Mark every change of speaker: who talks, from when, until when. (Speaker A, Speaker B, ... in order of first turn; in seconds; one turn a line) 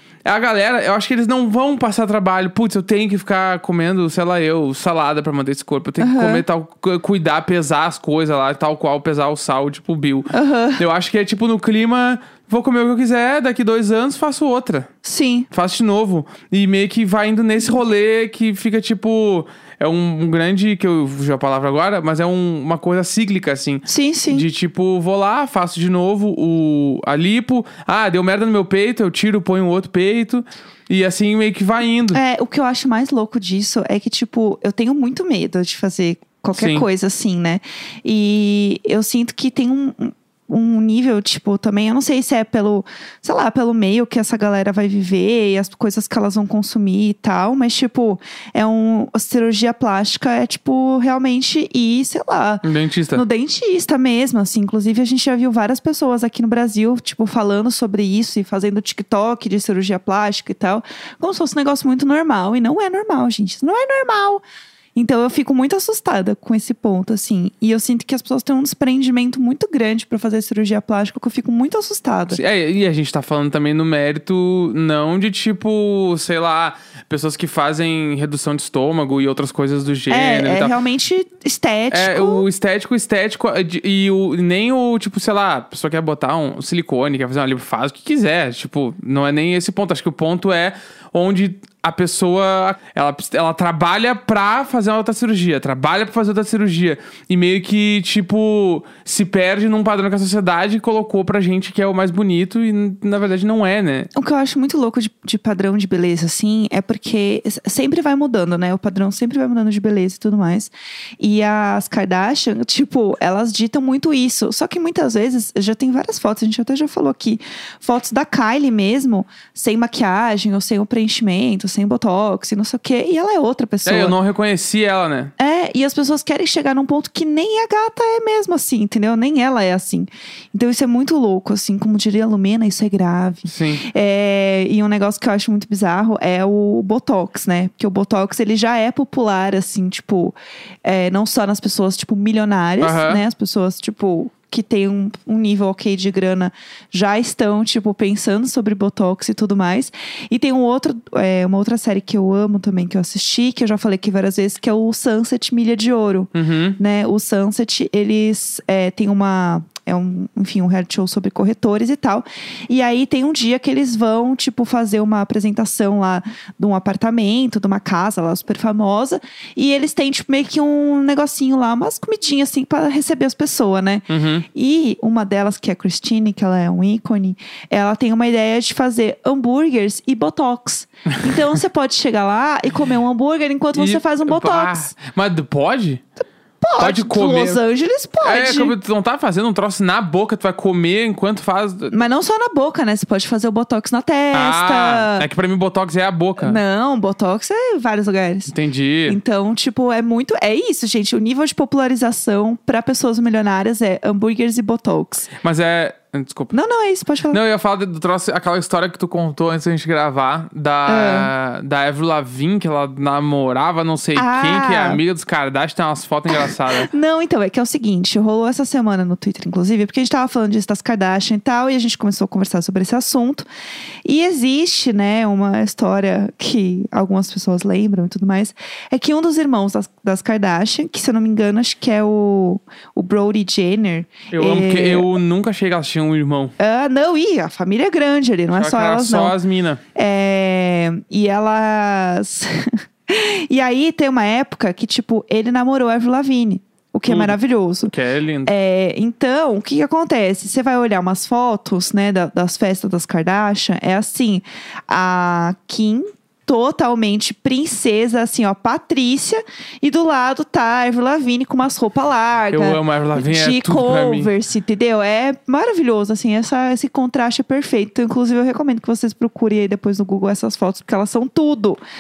Speaker A: 0.2-14.9
Speaker B: 6.0-6.4
Speaker B: 10.3-10.8
Speaker B: 15.0-15.5
Speaker A: 15.5-32.2
Speaker B: 23.9-24.5
Speaker B: 32.1-64.4
Speaker A: 36.5-36.9
Speaker A: 52.6-53.2
Speaker B: 65.0-72.4
Speaker A: 72.3-80.8
Speaker B: 80.1-82.5
Speaker A: 81.9-104.1
Speaker B: 104.1-124.2
Speaker A: 123.8-125.3
Speaker B: 125.4-184.9
Speaker A: 133.5-133.8
Speaker A: 142.8-143.2
Speaker A: 156.3-156.8
Speaker A: 174.1-174.5
Speaker A: 183.8-186.0
Speaker B: 186.6-188.8
Speaker A: 186.8-187.6
Speaker A: 188.2-191.9
Speaker B: 191.9-195.3
Speaker A: 194.3-196.6
Speaker B: 196.4-198.6
Speaker A: 198.5-199.2
Speaker B: 199.1-205.3
Speaker A: 205.4-206.5
Speaker B: 206.5-207.4
Speaker A: 207.3-216.9
Speaker B: 210.9-211.3
Speaker B: 214.2-215.0
Speaker B: 216.3-223.5
Speaker B: 224.1-235.1
Speaker A: 234.3-236.5
Speaker B: 236.6-239.4
Speaker A: 238.5-239.8
Speaker B: 239.9-247.9
Speaker A: 247.1-247.4
Speaker A: 247.9-248.5
Speaker B: 248.4-271.8
Speaker A: 262.5-264.3